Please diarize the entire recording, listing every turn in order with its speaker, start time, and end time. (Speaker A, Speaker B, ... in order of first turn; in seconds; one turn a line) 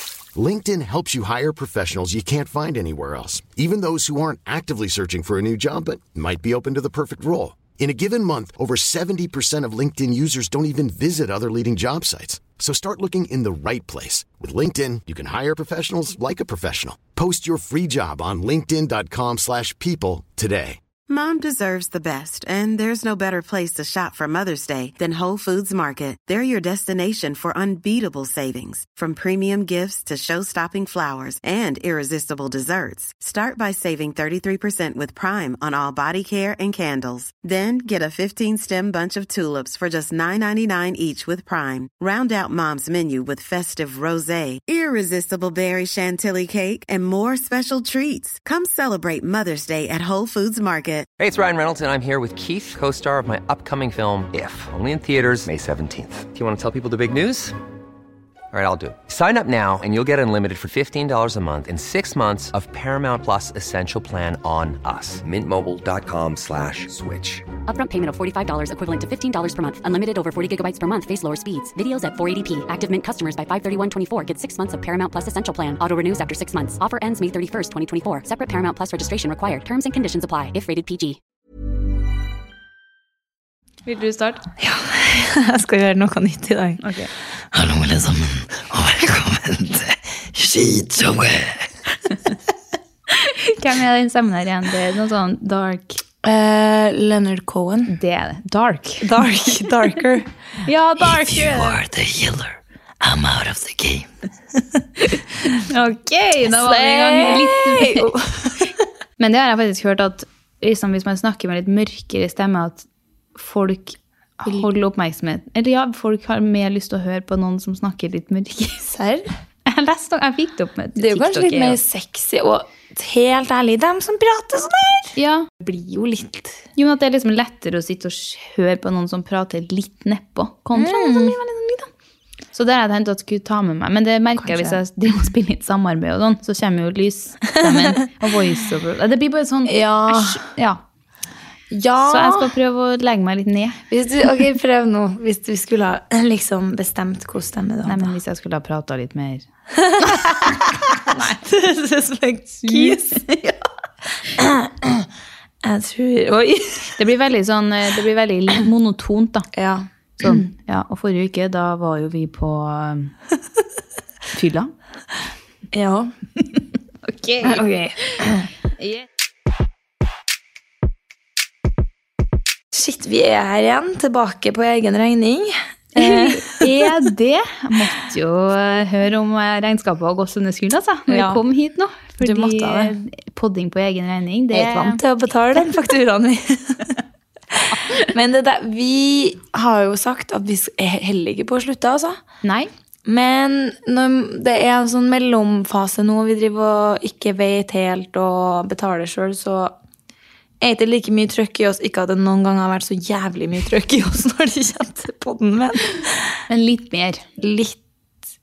Speaker A: 0.3-20.8
Speaker B: 21.1-51.1
Speaker C: 51.2-57.5
Speaker C: 58.5-67.4
Speaker D: 67.7-81.2
Speaker E: 83.8-84.4
Speaker F: 84.6-86.8
Speaker E: 86.8-87.1
Speaker G: 87.5-91.6
Speaker E: 93.1-96.0
Speaker F: 96.2-97.9
Speaker E: 97.9-99.1
Speaker F: 99.0-100.2
Speaker E: 100.6-101.8
Speaker G: 101.0-104.1
Speaker E: 105.5-108.1
Speaker F: 106.5-108.6
Speaker E: 109.2-119.0
Speaker F: 118.9-119.2
Speaker E: 119.7-121.8
Speaker F: 121.0-126.6
Speaker E: 125.2-125.5
Speaker E: 126.8-131.9
Speaker F: 130.8-131.4
Speaker E: 132.5-140.8
Speaker F: 134.4-134.8
Speaker F: 137.6-138.1
Speaker F: 139.7-140.4
Speaker F: 141.7-142.5
Speaker E: 142.0-143.8
Speaker F: 143.9-148.1
Speaker E: 147.8-149.4
Speaker F: 149.8-153.2
Speaker E: 152.6-153.6
Speaker F: 154.4-155.1
Speaker F: 155.6-157.0
Speaker E: 157.0-159.5
Speaker F: 159.5-160.5
Speaker E: 160.2-163.1
Speaker E: 164.3-164.7
Speaker F: 165.7-166.1
Speaker E: 167.0-167.6
Speaker F: 167.4-168.5
Speaker F: 172.7-176.9
Speaker E: 175.9-185.0
Speaker F: 181.1-181.4
Speaker F: 182.2-182.9
Speaker F: 184.5-187.0
Speaker F: 187.5-192.2
Speaker E: 187.7-188.1
Speaker E: 192.4-192.7
Speaker F: 193.1-199.7
Speaker F: 200.6-206.4
Speaker E: 206.5-207.2
Speaker F: 207.4-207.8